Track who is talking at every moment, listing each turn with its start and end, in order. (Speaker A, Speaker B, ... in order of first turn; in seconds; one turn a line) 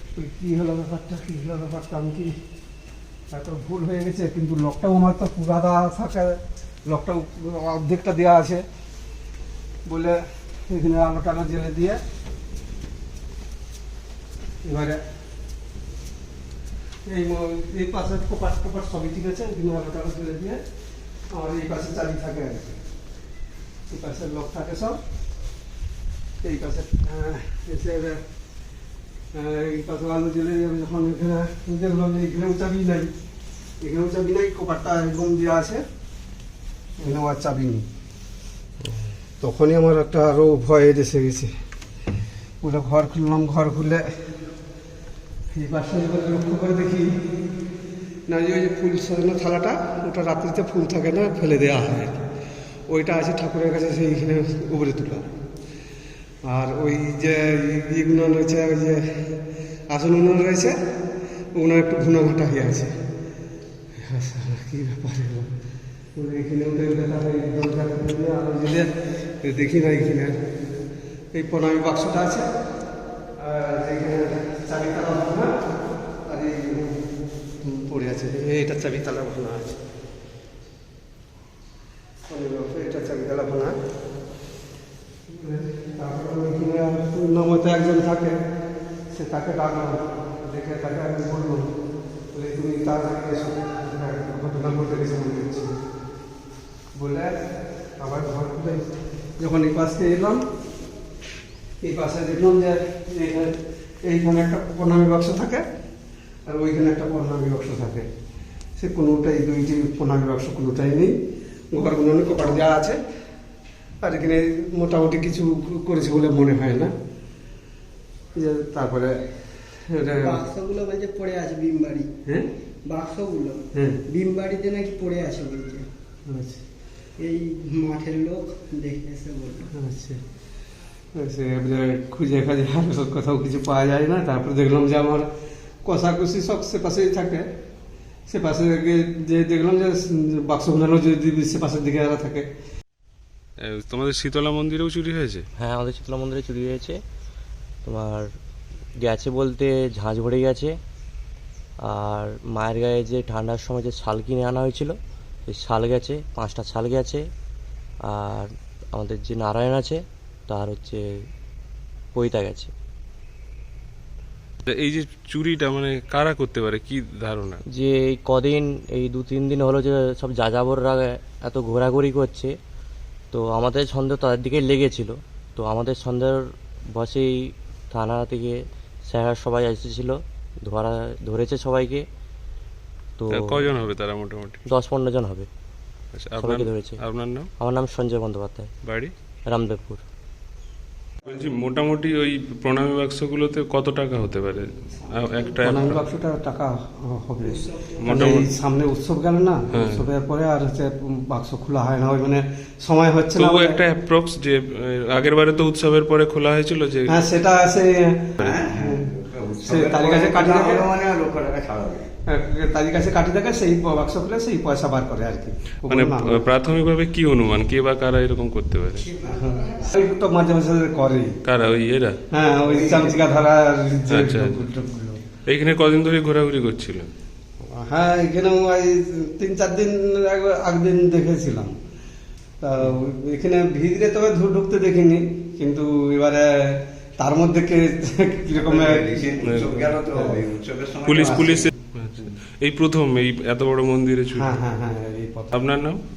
Speaker A: 0.1-2.4
Speaker A: 3.3-8.7
Speaker A: 9.9-12.0
Speaker A: 14.6-15.0
Speaker A: 17.1-20.6
Speaker A: 21.3-22.8
Speaker A: 23.9-25.0
Speaker A: 26.4-28.2
Speaker A: 29.3-33.1
Speaker A: 33.8-35.9
Speaker A: 37.0-37.9
Speaker A: 39.4-41.5
Speaker A: 42.6-44.1
Speaker A: 45.5-47.2
Speaker A: 48.3-52.2
Speaker A: 52.9-55.3
Speaker A: 56.5-59.3
Speaker A: 59.9-60.8
Speaker A: 61.5-63.0
Speaker A: 64.0-65.5
Speaker A: 66.2-70.4
Speaker A: 71.3-72.5
Speaker A: 73.4-75.5
Speaker A: 76.2-77.0
Speaker A: 77.6-79.8
Speaker A: 82.3-83.8
Speaker A: 85.3-88.4
Speaker A: 89.1-91.7
Speaker A: 92.3-95.7
Speaker A: 97.0-100.4
Speaker A: 101.8-105.7
Speaker A: 106.5-108.1
Speaker A: 108.8-111.2
Speaker A: 111.7-113.0
Speaker A: 114.0-116.9
Speaker A: 118.3-120.5
Speaker B: 120.2-122.1
Speaker B: 122.8-125.9
Speaker A: 123.8-124.0
Speaker A: 126.3-126.6
Speaker B: 127.2-129.7
Speaker A: 129.7-130.2
Speaker A: 131.2-135.3
Speaker A: 135.8-137.5
Speaker A: 138.3-142.5
Speaker C: 143.6-145.5
Speaker D: 145.6-147.0
Speaker D: 147.8-148.3
Speaker D: 149.0-150.8
Speaker D: 151.8-157.3
Speaker D: 158.0-161.1
Speaker D: 162.1-162.7
Speaker C: 164.7-167.6
Speaker D: 167.7-172.5
Speaker D: 173.3-182.1
Speaker D: 183.2-183.7
Speaker C: 183.3-184.6
Speaker D: 184.7-185.5
Speaker C: 186.1-187.5
Speaker D: 186.4-187.0
Speaker D: 187.6-188.7
Speaker C: 188.8-189.1
Speaker D: 189.5-190.0
Speaker C: 191.2-196.0
Speaker B: 195.1-195.8
Speaker A: 195.6-203.8
Speaker B: 197.4-198.1
Speaker C: 198.0-198.5
Speaker C: 199.7-200.1
Speaker C: 203.4-207.1
Speaker A: 207.1-210.9
Speaker E: 208.4-212.1
Speaker A: 212.3-216.5
Speaker C: 215.9-219.1
Speaker B: 218.9-220.2
Speaker A: 219.2-221.4
Speaker C: 221.4-222.2
Speaker A: 222.3-225.2
Speaker E: 222.6-223.2
Speaker C: 224.1-224.6
Speaker C: 225.5-227.1
Speaker A: 227.7-231.7
Speaker A: 232.6-239.2
Speaker E: 238.6-242.2
Speaker C: 239.4-239.9
Speaker A: 240.1-240.4
Speaker C: 241.0-244.6
Speaker A: 244.3-245.7
Speaker C: 245.5-246.0